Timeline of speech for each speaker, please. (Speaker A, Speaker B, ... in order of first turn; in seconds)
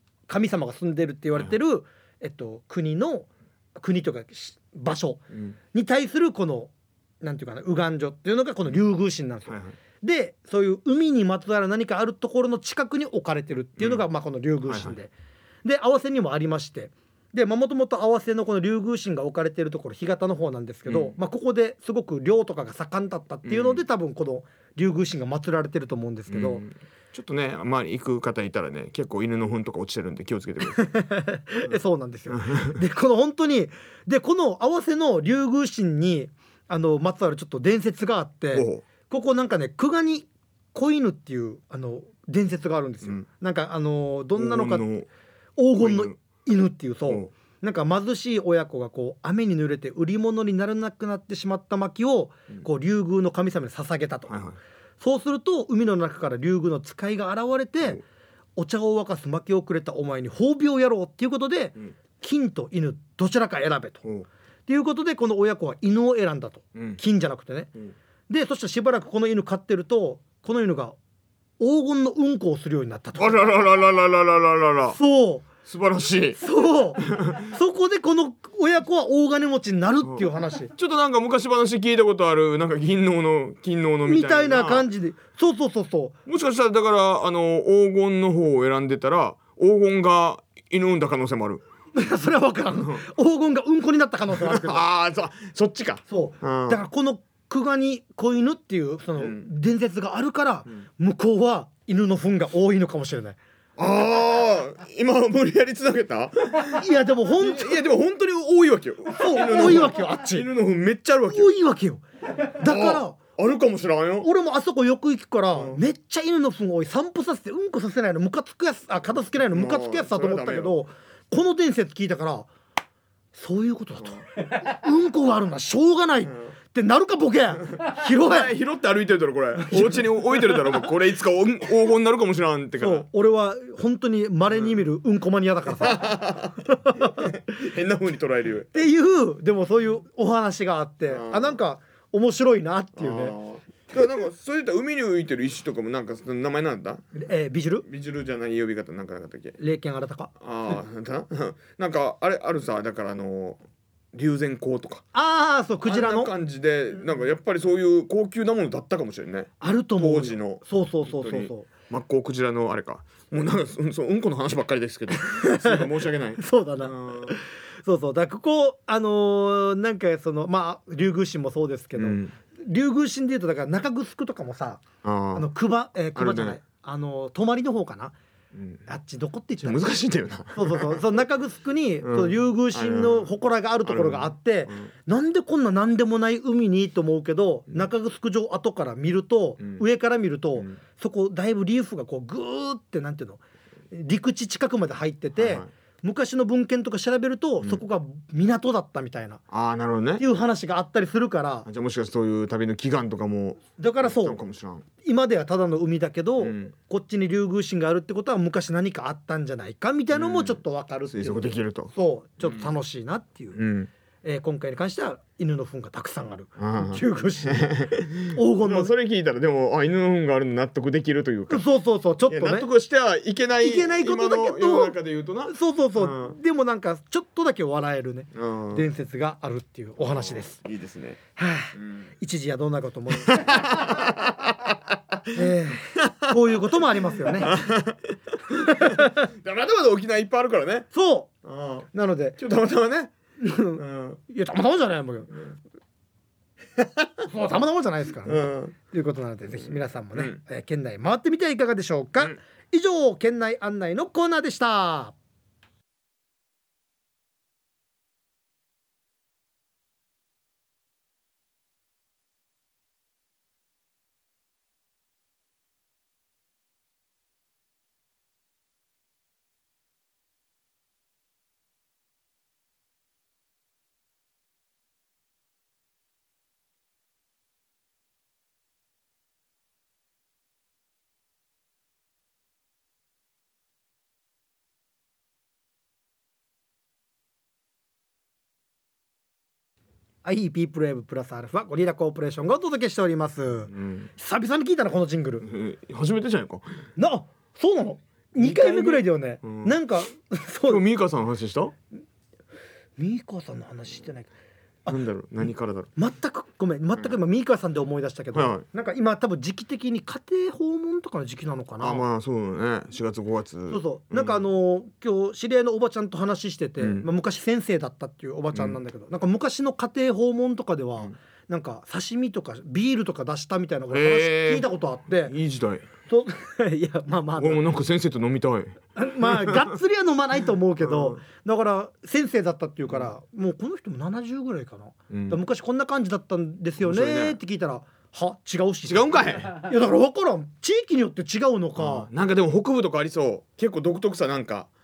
Speaker A: 0.3-6.7, 7.2-15.1, 15.6-26.6, 30.7-44.9, 45.6-54.3, 55.0-58.0, 58.5-64.0, 64.7-67.7, 68.3-71.0, 71.6-73.5, 74.9-75.5, 76.4-80.7, 84.0-86.2, 91.9-94.8, 96.1-103.4, 106.7-107.9, 109.1-110.5, 111.3-113.2, 114.2-122.5, 123.3-128.5, 129.6-130.7, 132.8-137.3, 138.7-143.3, 147.1-147.8, 149.6-150.3, 155.1-156.3, 159.6-161.7, 165.2-165.8, 166.4-178.1, 178.8-179.9, 180.5-193.4, 193.9-199.4, 200.2-201.7, 203.8-204.4, 205.0-213.6, 214.2-217.8, 218.3-218.9, 221.5-222.7, 223.6-230.6, 231.3-233.9, 235.3-237.6, 238.6-239.3, 240.9-241.3, 241.9-242.4, 243.4-245.5, 247.2-255.1, 290.2-295.5, 296.9-300.8, 303.0-304.3, 305.9-312.0, 313.7-325.3, 326.1-327.6, 328.9-342.1
Speaker B: 9.5-9.8, 13.8-14.0, 14.6-14.9, 20.9-21.1, 23.4-23.8, 26.3-30.8, 32.3-32.8, 38.5-38.8, 44.4-45.1, 45.8-46.1, 54.3-54.6, 66.7-67.0, 73.2-75.0, 75.7-76.4, 77.0-77.4, 80.0-84.9, 86.2-91.6, 94.3-96.8, 99.2-99.5, 103.8-111.5, 112.6-114.3, 115.5-115.8, 119.5-120.8, 127.8-133.1, 135.8-138.7, 141.1-141.6, 142.9-147.0, 147.8-149.6, 150.4-153.6, 154.1-155.0, 155.8-167.4, 171.9-172.3, 175.0-175.5, 176.2-176.6, 178.5-178.8, 179.6-181.0, 182.0-183.3, 183.8-184.9, 195.3-195.7, 199.5-200.2, 201.7-204.8, 206.4-206.7, 210.1-210.6, 211.1-212.7, 213.6-213.9, 216.6-221.6, 222.3-226.3, 228.3-228.8, 230.0-231.2, 231.7-232.1, 233.2-235.3, 235.9-236.3, 237.2-240.9, 241.4-243.1, 243.8-244.2, 246.8-247.1, 248.2-248.7, 250.1-250.4, 293.7-294.1, 295.4-296.7, 298.4-299.8, 300.7-301.7, 304.9-305.9, 308.3-308.6, 311.8-314.4, 316.8-317.1, 318.5-318.8, 323.9-324.7, 325.2-325.9, 327.4-329.8, 330.8-331.2, 335.1-335.4, 336.8-337.4, 338.8-339.6, 341.8-344.7